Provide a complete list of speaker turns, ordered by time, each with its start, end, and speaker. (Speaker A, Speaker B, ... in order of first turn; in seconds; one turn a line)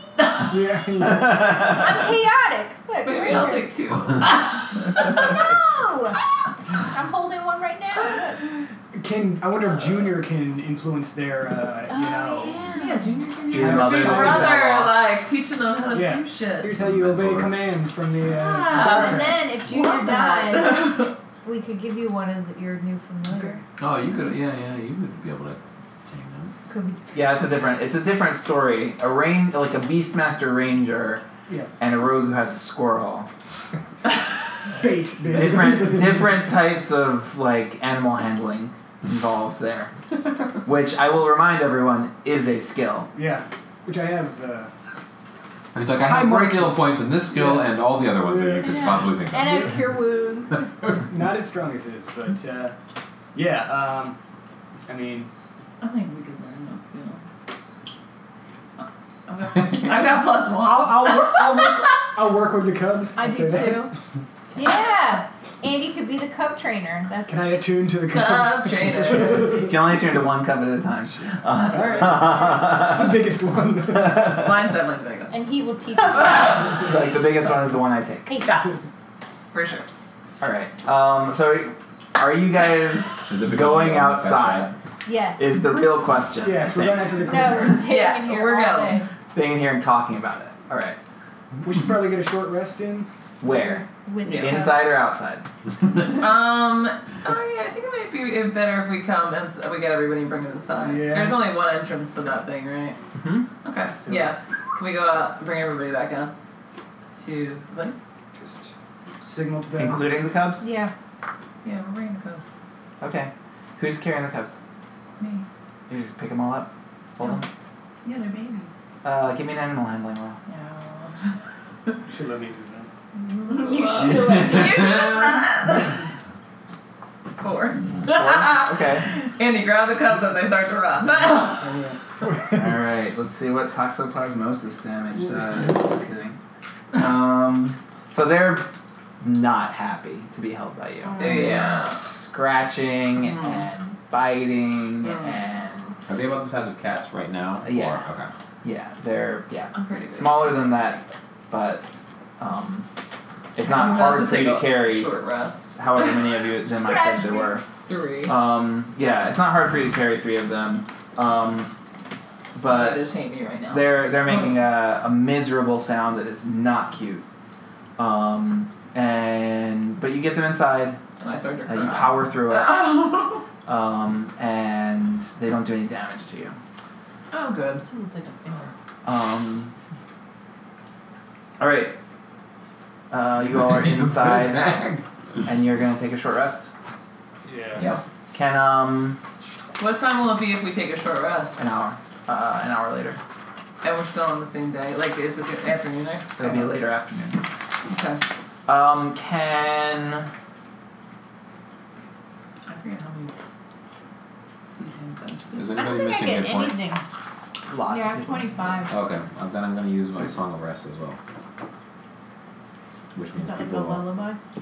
Speaker A: 0.2-0.5
Speaker B: 0.5-1.8
Speaker C: 1.6-3.7
Speaker A: 3.0-5.4
Speaker C: 5.0-6.2
Speaker C: 6.8-8.4
Speaker B: 8.9-12.7
Speaker C: 11.9-13.1
Speaker A: 12.6-16.7
Speaker D: 13.5-15.0
Speaker B: 13.5-14.7
Speaker B: 15.9-19.4
Speaker E: 16.7-17.7
Speaker A: 18.2-21.1
Speaker C: 18.7-23.6
Speaker B: 23.3-23.6
Speaker E: 23.8-26.5
Speaker C: 26.7-27.0
Speaker D: 27.1-31.2
Speaker D: 31.8-33.3
Speaker B: 34.7-36.4
Speaker D: 35.3-43.1
Speaker B: 43.1-44.7
Speaker E: 45.7-49.7
Speaker B: 46.0-49.7
Speaker C: 48.7-50.7
Speaker B: 51.0-52.7
Speaker B: 53.3-54.2
Speaker B: 54.9-55.3
Speaker A: 55.8-57.2
Speaker A: 58.8-62.1
Speaker B: 60.5-63.9
Speaker C: 63.1-63.9
Speaker C: 64.5-67.6
Speaker B: 67.3-70.0
Speaker A: 68.1-69.6
Speaker D: 69.4-73.2
Speaker B: 71.7-74.4
Speaker A: 74.2-75.4
Speaker C: 75.3-76.7
Speaker A: 76.1-76.9
Speaker D: 76.8-78.3
Speaker C: 78.3-78.7
Speaker A: 78.4-78.9
Speaker A: 79.5-79.9
Speaker D: 80.4-84.7
Speaker E: 83.3-84.7
Speaker C: 85.0-85.6
Speaker D: 85.4-87.3
Speaker B: 86.4-87.9
Speaker C: 87.2-89.0
Speaker A: 87.7-89.0
Speaker D: 89.3-91.0
Speaker B: 91.6-93.1
Speaker D: 93.4-95.5
Speaker C: 94.0-94.9
Speaker A: 94.2-94.6
Speaker A: 96.0-103.0
Speaker B: 100.8-101.4
Speaker D: 103.1-103.5
Speaker A: 103.6-106.3
Speaker B: 104.0-104.3
Speaker A: 107.1-108.0
Speaker B: 108.3-110.2
Speaker D: 109.8-110.6
Speaker C: 110.6-110.9
Speaker A: 111.6-112.5
Speaker D: 113.0-114.6
Speaker A: 115.2-115.5
Speaker D: 115.9-117.5
Speaker A: 118.0-118.7
Speaker D: 119.0-120.4
Speaker A: 120.5-121.3
Speaker B: 122.0-122.9
Speaker C: 123.2-125.8
Speaker A: 123.4-125.8
Speaker A: 127.4-131.8
Speaker D: 128.0-129.1
Speaker B: 131.4-132.7
Speaker D: 132.5-136.4
Speaker D: 136.9-146.0
Speaker C: 141.1-141.5
Speaker A: 141.2-142.1
Speaker A: 143.2-143.6
Speaker A: 145.0-145.4
Speaker E: 146.1-148.3
Speaker D: 147.6-148.0
Speaker D: 148.6-151.8
Speaker A: 149.7-150.9
Speaker D: 152.4-152.9
Speaker D: 153.5-155.1
Speaker A: 153.6-156.4
Speaker D: 155.7-157.7
Speaker C: 156.7-157.6
Speaker A: 157.8-158.4
Speaker D: 158.2-161.7
Speaker D: 162.5-163.0
Speaker A: 162.6-164.6
Speaker D: 163.7-167.2
Speaker D: 168.0-171.0
Speaker A: 171.2-173.4
Speaker D: 171.7-173.0
Speaker D: 173.7-176.6
Speaker A: 177.3-177.8
Speaker C: 177.8-178.7
Speaker D: 179.0-179.7
Speaker D: 181.6-181.9
Speaker D: 183.1-184.9
Speaker E: 183.7-185.0
Speaker D: 185.4-186.7
Speaker B: 187.4-187.8
Speaker D: 188.3-189.2
Speaker A: 189.8-191.6
Speaker D: 191.6-193.2
Speaker A: 193.8-196.7
Speaker D: 196.4-197.4
Speaker A: 197.8-198.2
Speaker D: 198.7-200.3
Speaker A: 202.7-203.3
Speaker A: 204.8-205.9
Speaker E: 205.5-206.8
Speaker C: 205.7-207.0
Speaker D: 207.7-208.8
Speaker C: 207.8-208.9
Speaker E: 208.9-211.2
Speaker E: 213.1-214.0
Speaker C: 213.3-214.4